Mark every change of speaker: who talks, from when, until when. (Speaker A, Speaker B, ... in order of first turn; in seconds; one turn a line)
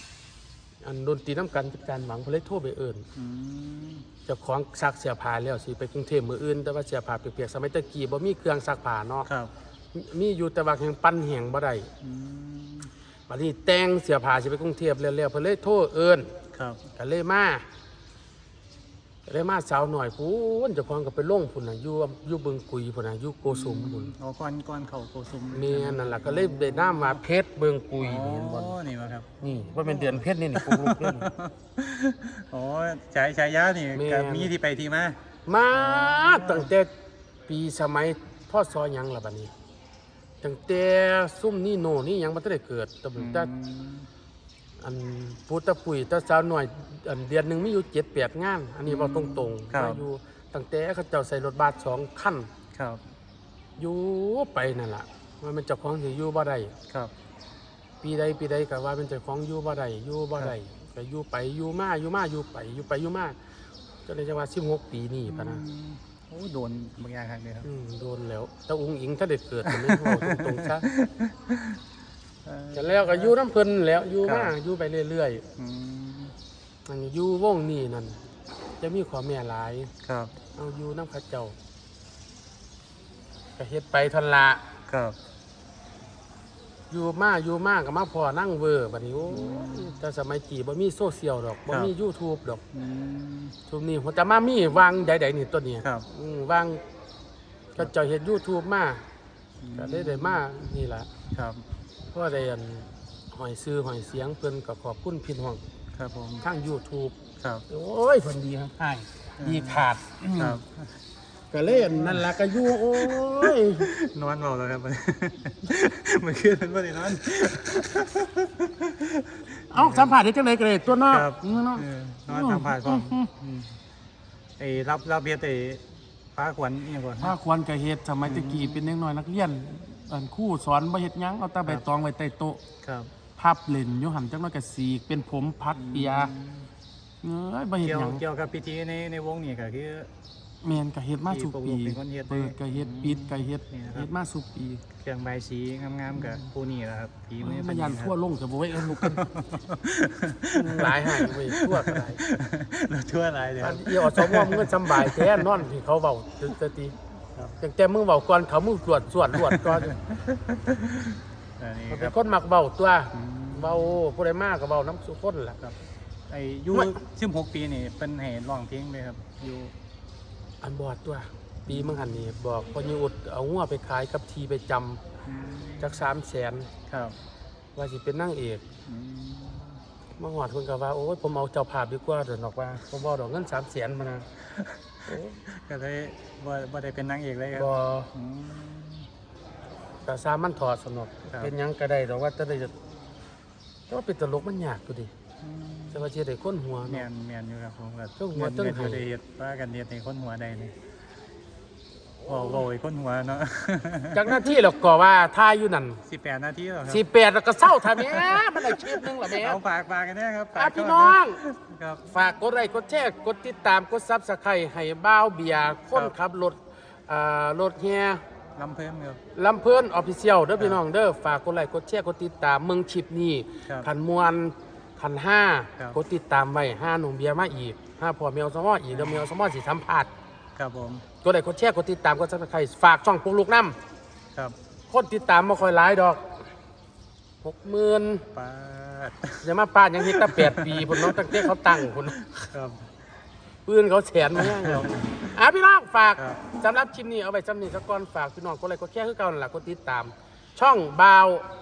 Speaker A: 0.8-3.0
Speaker B: 3.1-4.0
Speaker A: 4.2-9.3
Speaker B: 9.2-9.5
Speaker A: 9.9-11.9
Speaker B: 12.0-12.9
Speaker A: 13.3-16.3
Speaker B: 16.5-16.8
Speaker A: 16.9-17.6
Speaker A: 19.2-24.1
Speaker B: 23.5-27.2
Speaker A: 25.5-28.8
Speaker B: 28.0-35.2
Speaker A: 29.4-31.3
Speaker A: 33.9-34.5
Speaker A: 35.5-36.9
Speaker B: 35.7-36.7
Speaker A: 37.5-39.5
Speaker A: 40.4-43.5
Speaker B: 43.1-44.1
Speaker A: 44.8-52.5
Speaker B: 48.9-50.0
Speaker B: 52.7-53.0
Speaker A: 53.8-56.7
Speaker A: 58.0-63.4
Speaker A: 64.1-65.6
Speaker B: 65.2-67.7
Speaker A: 67.6-70.9
Speaker B: 69.7-71.8
Speaker B: 72.4-73.3
Speaker A: 72.7-75.4
Speaker B: 74.2-74.5
Speaker B: 75.5-76.3
Speaker A: 76.9-78.2
Speaker A: 78.8-79.9
Speaker B: 80.0-80.3
Speaker A: 80.5-81.5
Speaker A: 83.6-84.6
Speaker B: 84.9-85.2
Speaker A: 86.9-92.6
Speaker B: 89.2-90.0
Speaker B: 92.7-93.5
Speaker A: 93.7-96.8
Speaker A: 97.7-99.0
Speaker B: 99.6-100.4
Speaker A: 99.7-101.1
Speaker B: 101.3-101.6
Speaker A: 102.1-105.6
Speaker B: 105.9-106.4
Speaker A: 106.4-107.1
Speaker B: 107.4-107.6
Speaker A: 107.7-110.6
Speaker B: 109.4-110.8
Speaker A: 111.5-113.9
Speaker B: 111.7-120.1
Speaker A: 119.7-123.3
Speaker B: 121.1-123.7
Speaker B: 124.6-125.8
Speaker B: 126.3-127.3
Speaker A: 127.2-132.6
Speaker B: 128.2-128.9
Speaker B: 132.8-133.1
Speaker A: 133.4-136.3
Speaker B: 135.7-136.7
Speaker A: 137.2-138.2
Speaker B: 137.8-140.1
Speaker A: 140.6-144.8
Speaker B: 141.2-144.1
Speaker B: 145.0-148.1
Speaker A: 146.1-146.4
Speaker A: 147.4-149.3
Speaker B: 148.7-155.6
Speaker A: 150.5-152.2
Speaker A: 153.6-156.9
Speaker A: 157.6-159.9
Speaker B: 159.3-162.1
Speaker A: 161.9-165.6
Speaker B: 163.1-164.0
Speaker B: 166.3-169.7
Speaker A: 170.6-175.0
Speaker B: 171.7-172.4
Speaker B: 175.2-175.8
Speaker A: 175.8-176.7
Speaker B: 176.9-177.2
Speaker A: 177.8-178.6
Speaker B: 178.8-179.8
Speaker A: 180.2-184.2
Speaker B: 184.6-189.1
Speaker A: 185.1-185.4
Speaker A: 187.5-188.1
Speaker A: 190.1-192.7
Speaker A: 193.9-195.1
Speaker B: 195.4-196.0
Speaker A: 195.9-197.1
Speaker B: 196.8-200.7
Speaker A: 198.2-199.0
Speaker A: 202.2-202.6
Speaker B: 202.2-204.5
Speaker A: 204.1-206.0
Speaker B: 206.1-207.0
Speaker A: 206.9-209.6
Speaker B: 207.7-212.1
Speaker A: 210.5-211.4
Speaker A: 212.1-218.2
Speaker B: 218.6-219.2
Speaker A: 219.3-230.1
Speaker B: 228.9-229.3
Speaker B: 230.6-231.0
Speaker A: 231.2-233.8
Speaker A: 234.9-236.4
Speaker A: 237.4-238.2
Speaker B: 238.3-239.5
Speaker A: 239.4-242.2
Speaker B: 240.0-242.9
Speaker A: 243.7-251.4
Speaker B: 244.3-245.3
Speaker B: 246.2-246.4